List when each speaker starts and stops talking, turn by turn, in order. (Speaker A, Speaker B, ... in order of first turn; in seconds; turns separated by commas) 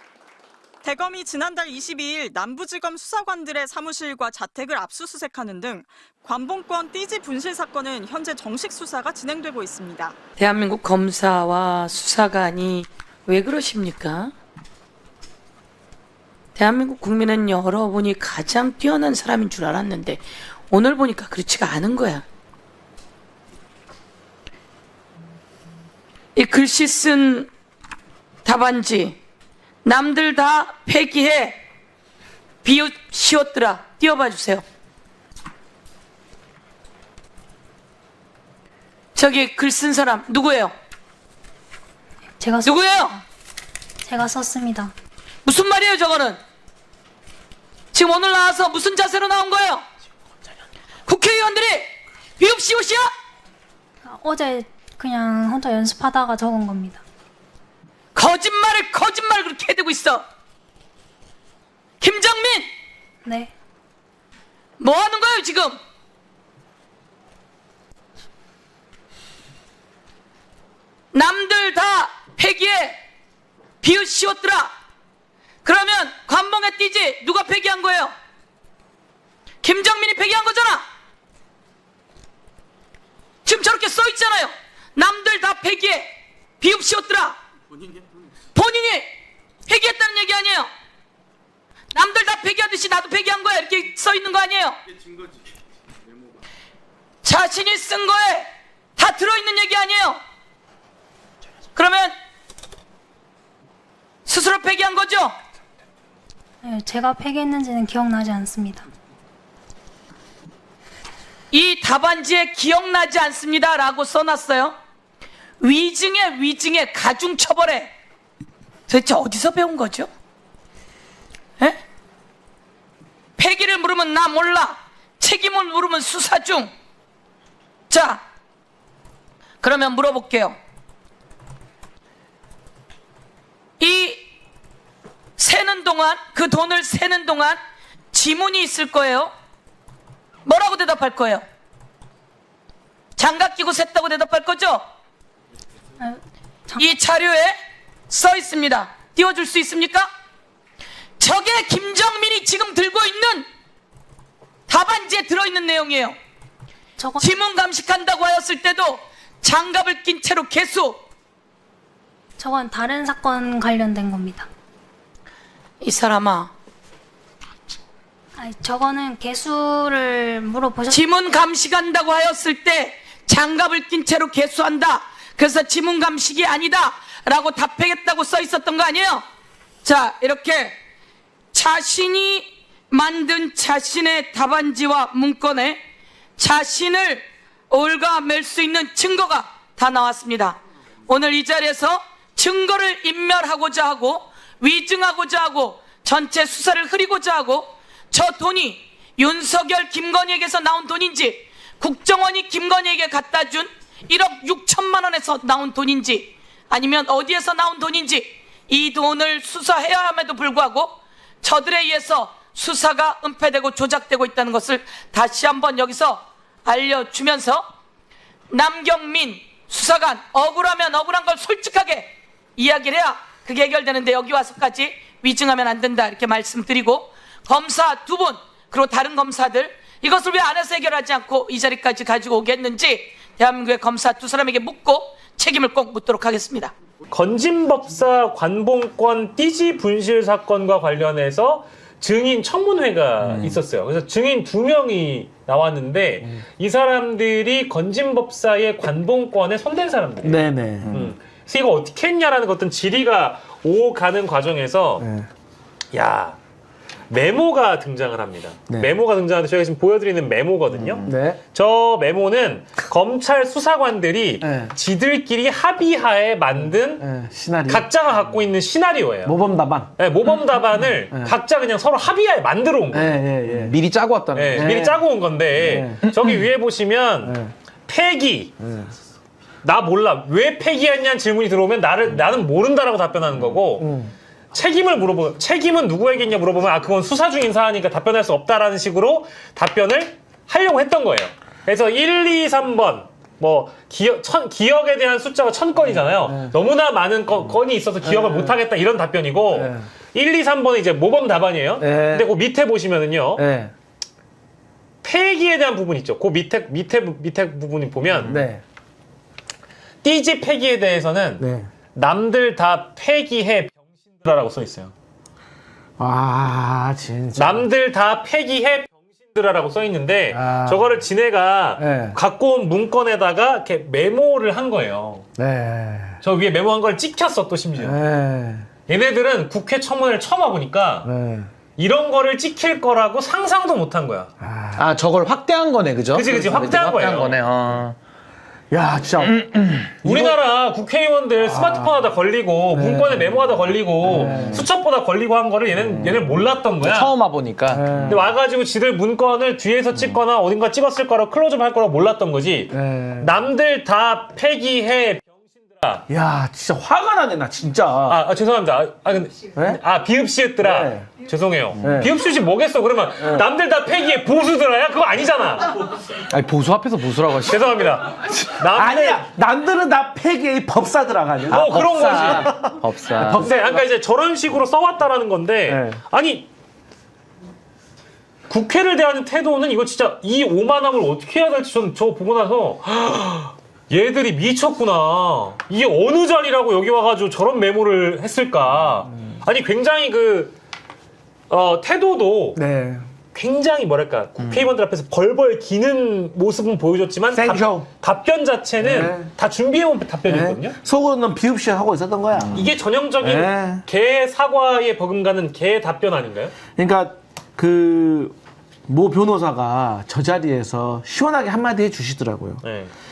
Speaker A: 0.8-10.2, Speaker B: 10.4-14.3, Speaker B: 16.6-22.2, Speaker B: 26.4-27.5, Speaker B: 28.4-29.2, Speaker B: 29.8-31.6, Speaker B: 32.6-34.6, Speaker B: 39.1-40.7, Speaker C: 42.4-43.2, Speaker B: 42.6-43.2, Speaker C: 44.0-44.9, Speaker B: 45.4-46.4, Speaker B: 47.9-49.8, Speaker B: 51.0-53.1, Speaker C: 54.0-57.0, Speaker B: 58.1-60.2, Speaker B: 62.0-62.7, Speaker C: 63.2-63.5, Speaker B: 64.8-65.8, Speaker B: 71.1-73.0, Speaker B: 73.8-74.7, Speaker B: 75.6-78.1, Speaker B: 79.6-80.8, Speaker B: 83.4-87.4, Speaker B: 88.5-89.1, Speaker B: 89.7-90.7, Speaker B: 91.9-94.8, Speaker B: 97.2-100.2, Speaker B: 101.7-102.1, Speaker B: 104.2-105.3, Speaker C: 106.6-108.8, Speaker B: 111.5-114.8, Speaker B: 115.6-117.9, Speaker B: 118.9-120.1, Speaker B: 123.4-126.7, Speaker B: 127.9-128.2, Speaker B: 129.6-130.6, Speaker B: 133.8-134.2, Speaker B: 135.4-137.6, Speaker B: 138.1-139.3, Speaker B: 140.4-141.4, Speaker B: 143.2-144.8, Speaker C: 146.0-146.9, Speaker B: 146.8-147.6, Speaker B: 148.1-150.1, Speaker B: 151.2-153.4, Speaker B: 154.7-156.2, Speaker C: 157.0-157.3, Speaker B: 157.2-161.0, Speaker C: 162.4-164.5, Speaker B: 165.8-166.5, Speaker C: 168.3-171.0, Speaker B: 170.9-179.2, Speaker B: 179.8-180.7, Speaker B: 181.5-185.8, Speaker B: 186.4-217.6, Speaker B: 218.5-236.7, Speaker D: 237.1-255.1, Speaker E: 243.2-243.6, Speaker F: 250.2-251.1, Speaker F: 255.0-255.3, Speaker D: 255.9-256.4, Speaker D: 257.1-267.1, Speaker F: 258.7-258.9, Speaker F: 260.7-261.4, Speaker F: 264.4-264.7, Speaker F: 266.6-267.9, Speaker D: 267.6-269.4, Speaker F: 269.2-269.9, Speaker D: 270.0-273.2, Speaker F: 271.1-271.4, Speaker F: 272.9-273.8, Speaker E: 273.5-274.7, Speaker D: 274.3-277.3, Speaker F: 274.5-275.0, Speaker F: 275.6-276.0, Speaker F: 277.2-277.5, Speaker D: 277.9-278.5, Speaker F: 278.6-278.9, Speaker D: 279.6-283.9, Speaker F: 283.8-284.1, Speaker D: 284.5-303.4, Speaker F: 295.9-296.5, Speaker F: 298.0-298.5, Speaker F: 299.5-299.8, Speaker F: 301.8-302.3, Speaker F: 303.4-303.7, Speaker D: 305.0-308.4, Speaker F: 308.2-308.6, Speaker D: 310.0-314.9, Speaker F: 311.4-311.7, Speaker F: 316.0-317.7, Speaker D: 317.3-325.3, Speaker F: 320.3-321.0, Speaker F: 321.8-322.2, Speaker F: 325.4-326.2, Speaker D: 326.2-328.0, Speaker F: 327.8-328.7, Speaker D: 328.9-331.1, Speaker F: 331.0-331.5, Speaker D: 331.8-334.3, Speaker F: 334.4-335.1, Speaker E: 334.8-337.9, Speaker D: 336.1-337.4, Speaker F: 338.7-339.4, Speaker E: 339.2-339.9, Speaker F: 340.0-340.4, Speaker D: 340.0-347.1, Speaker F: 341.5-341.9, Speaker F: 342.8-343.2, Speaker F: 344.0-344.6, Speaker E: 344.1-344.5, Speaker E: 346.8-348.1, Speaker F: 347.7-348.3, Speaker D: 348.0-356.0, Speaker F: 352.7-353.3, Speaker F: 356.1-358.2, Speaker D: 358.1-365.8, Speaker F: 359.5-359.8, Speaker F: 360.6-361.1, Speaker F: 361.8-362.1, Speaker F: 363.2-363.5, Speaker E: 366.3-367.8, Speaker D: 367.4-369.3, Speaker F: 368.2-373.8, Speaker D: 371.5-376.5, Speaker E: 372.0-373.5, Speaker F: 375.7-376.0, Speaker D: 378.5-390.5, Speaker D: 391.5-392.6, Speaker F: 392.5-393.0, Speaker D: 393.3-400.8, Speaker F: 397.3-397.9, Speaker F: 398.8-399.3, Speaker F: 400.2-403.8, Speaker D: 402.5-406.6, Speaker F: 406.8-408.3, Speaker F: 408.9-412.6, Speaker D: 412.6-412.9